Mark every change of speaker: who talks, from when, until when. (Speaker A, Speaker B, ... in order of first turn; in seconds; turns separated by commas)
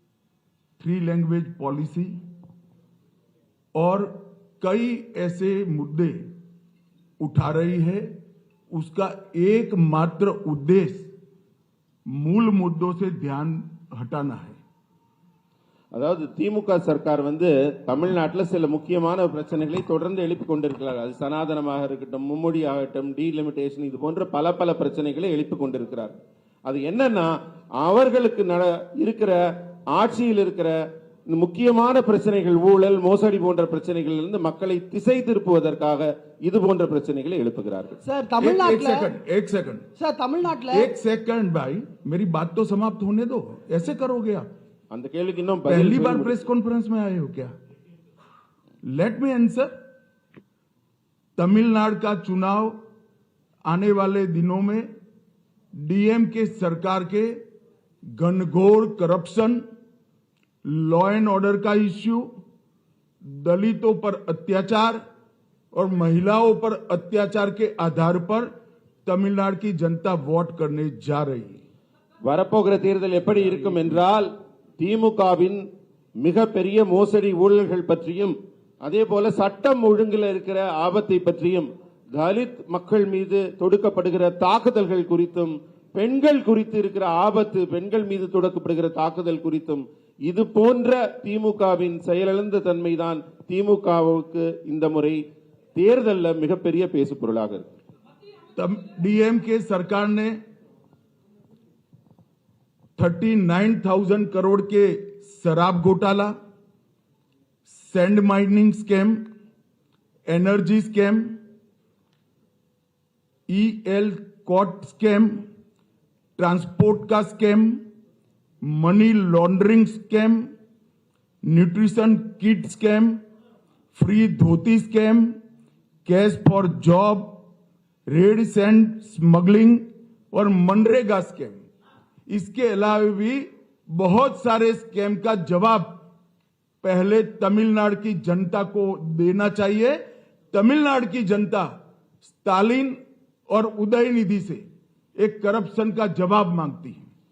Speaker A: 0.8-2.1, Speaker A: 3.7-6.3, Speaker A: 7.2-8.2, Speaker A: 8.7-11.1, Speaker A: 12.1-14.6, Speaker B: 15.9-26.1, Speaker B: 26.6-29.4, Speaker B: 29.9-30.7, Speaker B: 31.3-38.0, Speaker C: 38.0-39.1, Speaker A: 38.4-39.9, Speaker C: 40.0-40.9, Speaker A: 40.7-44.5, Speaker B: 44.9-46.4, Speaker A: 45.7-47.5, Speaker A: 48.8-49.7, Speaker A: 51.4-52.8, Speaker A: 53.6-54.9, Speaker A: 55.7-57.4, Speaker A: 58.1-59.6, Speaker A: 60.6-62.4, Speaker A: 63.2-65.0, Speaker A: 65.7-68.5, Speaker A: 69.0-71.6, Speaker B: 72.2-75.6, Speaker B: 76.2-95.2, Speaker B: 95.7-97.7, Speaker A: 98.5-100.4, Speaker A: 103.0-106.3, Speaker A: 107.7-109.3, Speaker A: 110.3-111.4, Speaker A: 113.5-115.5, Speaker A: 116.4-117.8, Speaker A: 118.6-120.5, Speaker A: 121.4-123.2, Speaker A: 123.9-125.4, Speaker A: 126.0-127.4, Speaker A: 128.1-131.6, Speaker A: 132.3-136.0, Speaker A: 136.8-141.7, Speaker A: 142.2-144.6, Speaker A: 145.2-147.0